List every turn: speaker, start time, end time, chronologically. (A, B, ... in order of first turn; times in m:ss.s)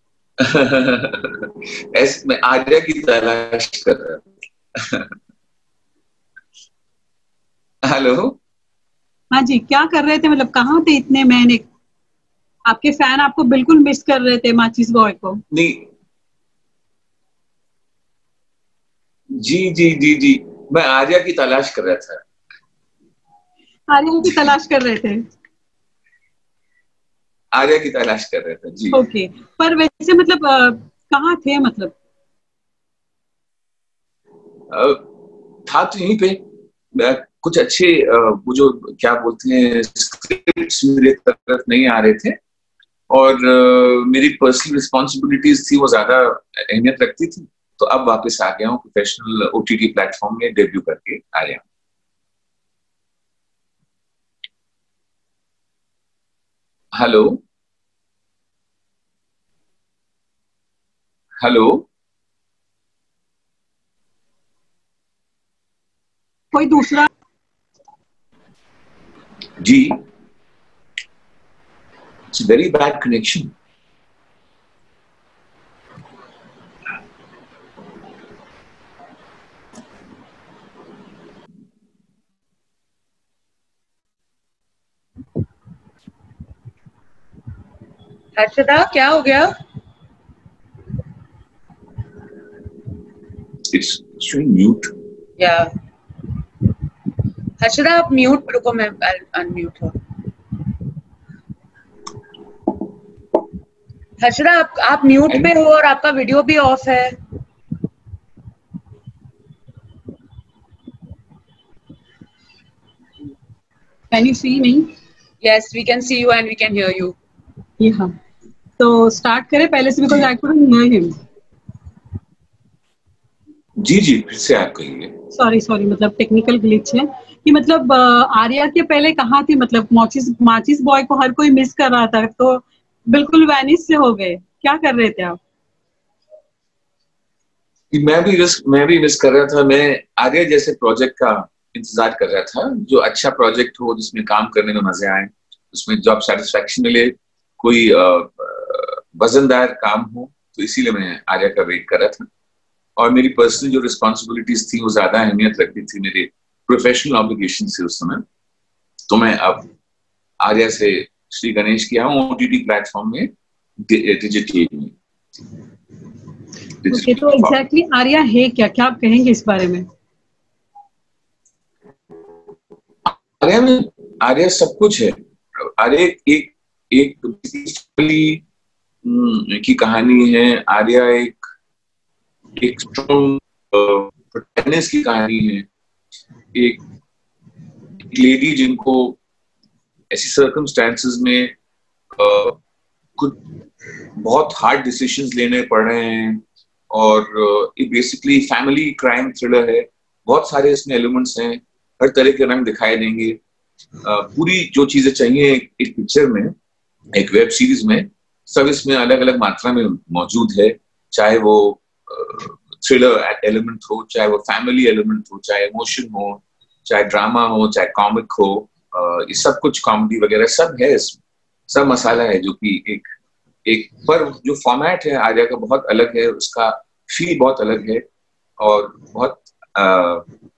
0:00.4-0:05.2 A
0:07.8-0:08.4 A
0:09.3-0:11.6 B
0:12.7-0:15.4 B
0:15.5-0:15.9 A
0:19.3-0:22.2 A
0:23.9-0:25.2 B
0:27.5-0:29.0 A
0:28.9-0:32.0 B
0:34.7-0:35.1 A
0:35.6-0:42.4 A
0:43.1-0:51.6 A
0:56.9-0:57.4 A
1:01.4-1:01.9 A
1:06.5-1:07.1 B
1:09.6-1:10.0 A
1:12.3-1:13.5 A
1:28.4-1:29.6 C
1:33.7-1:34.9 A
1:35.4-1:35.7 C
1:37.6-1:40.0 C
1:44.2-1:47.2 C
1:54.1-1:54.9 B
1:55.4-1:57.2 C
1:57.8-1:58.2 B
1:58.8-2:01.1 B
2:03.8-2:05.1 A
2:05.3-2:15.4 B
2:17.9-2:32.3 A
2:33.0-2:38.2 A
2:39.1-2:39.7 A
2:40.4-2:45.0 A
2:46.8-2:47.6 A
2:46.9-2:49.9 B
2:53.1-2:58.4 A
2:59.0-3:01.4 A
3:02.6-3:05.7 A
3:06.5-3:06.8 A
3:08.0-3:09.2 A
3:10.1-3:11.5 A
3:12.1-3:12.6 A
3:14.2-3:23.4 A
3:24.0-3:26.6 A
3:27.1-3:43.1 A
3:43.6-3:48.0 A
3:48.6-3:50.3 A